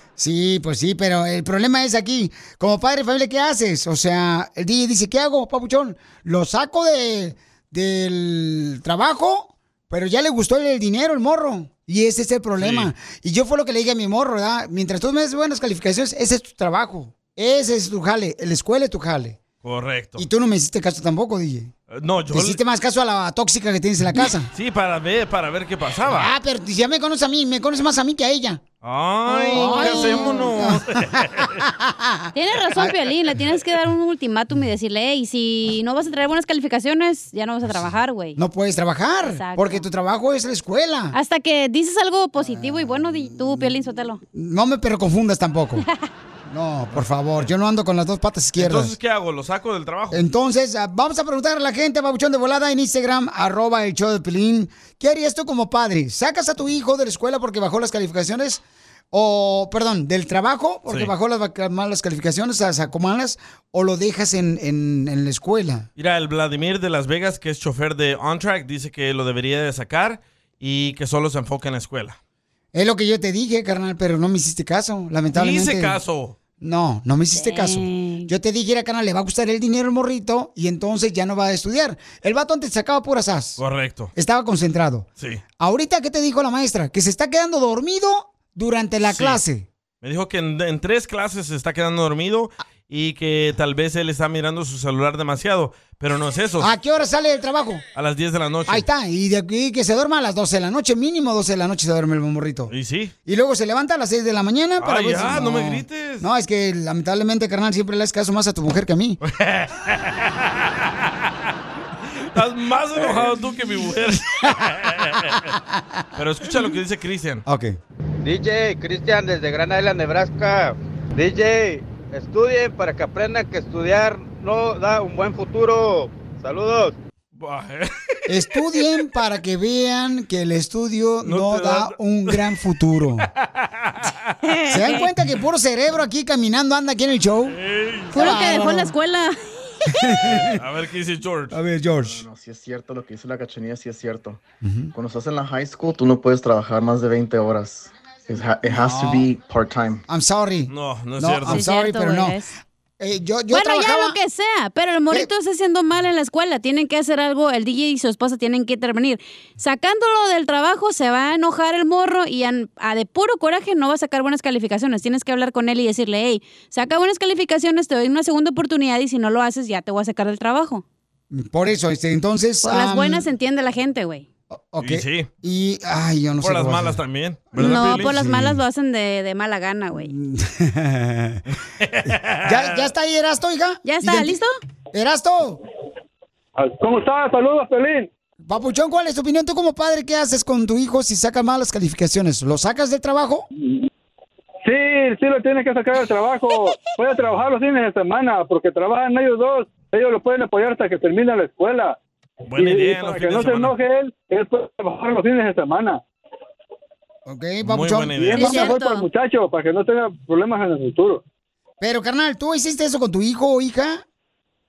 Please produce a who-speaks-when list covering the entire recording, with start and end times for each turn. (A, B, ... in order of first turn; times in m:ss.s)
0:00.2-0:19.4 A
0:12.6-0:12.9 B
0:19.6-0:20.2 B
0:20.2-0:21.7 A
0:21.9-0:22.6 B
0:22.3-0:24.5 A
0:24.5-0:26.3 B
0:26.1-0:28.6 A
0:28.8-0:31.6 B
0:29.3-0:32.9 A
0:29.5-0:30.5 C
0:32.3-0:38.4 C
0:38.4-0:41.2 A
0:39.2-0:39.8 C
0:41.1-0:44.2 C
0:42.4-0:43.7 A
0:44.2-0:45.8 A
0:46.4-0:48.9 A
0:46.9-0:47.4 B
0:48.6-0:50.2 B
0:50.1-1:05.9 A
1:06.0-1:12.2 B
1:12.7-1:16.0 A
1:15.3-1:16.4 B
1:16.6-1:23.6 A
1:17.3-1:18.3 C
1:23.6-1:24.1 B
1:24.2-1:25.0 A
1:25.6-1:29.6 A
1:29.1-1:29.4 B
1:30.0-1:36.7 B
1:36.6-1:37.8 A
1:37.9-1:38.8 B
1:38.7-1:42.7 A
1:42.7-1:43.1 B
1:43.2-1:49.2 A
1:44.8-1:46.2 B
1:49.2-1:51.1 B
1:52.2-1:55.5 B
1:56.2-1:57.4 B
1:57.4-1:57.8 A
1:58.2-2:07.0 D
2:07.4-2:08.0 B
2:08.3-2:13.3 A
2:11.2-2:12.4 B
2:13.4-2:14.3 B
2:14.4-2:15.1 C
2:14.7-2:17.6 A
2:17.5-2:18.1 B
2:18.1-2:18.9 A
2:18.1-2:19.8 C
2:19.9-2:20.5 A
2:20.4-2:21.6 B
2:21.5-2:22.2 A
2:22.0-2:24.4 E
2:24.6-2:24.9 A
2:24.9-2:30.0 E
2:28.6-2:29.3 A
2:30.1-2:32.4 A
2:30.7-2:31.6 B
2:31.5-2:32.5 C
2:33.0-2:34.2 A
2:33.5-2:50.8 C
2:51.3-2:53.2 A
2:52.6-2:54.2 C
2:54.5-2:57.0 A
2:54.8-2:55.3 B
2:56.4-2:58.1 B
2:57.6-2:58.6 A
2:57.6-3:00.1 C
2:59.9-3:01.4 A
3:01.8-3:02.8 B
3:02.4-3:04.4 A
3:03.8-3:04.5 C
3:04.9-3:05.6 A
3:06.6-3:08.1 F
3:08.4-3:13.4 A
3:14.6-3:22.0 F
3:22.5-3:23.7 B
3:22.5-3:26.0 F
3:27.2-3:28.7 A
3:27.6-3:28.6 B
3:28.2-3:31.2 F
3:28.4-3:29.1 C
3:31.8-3:34.0 A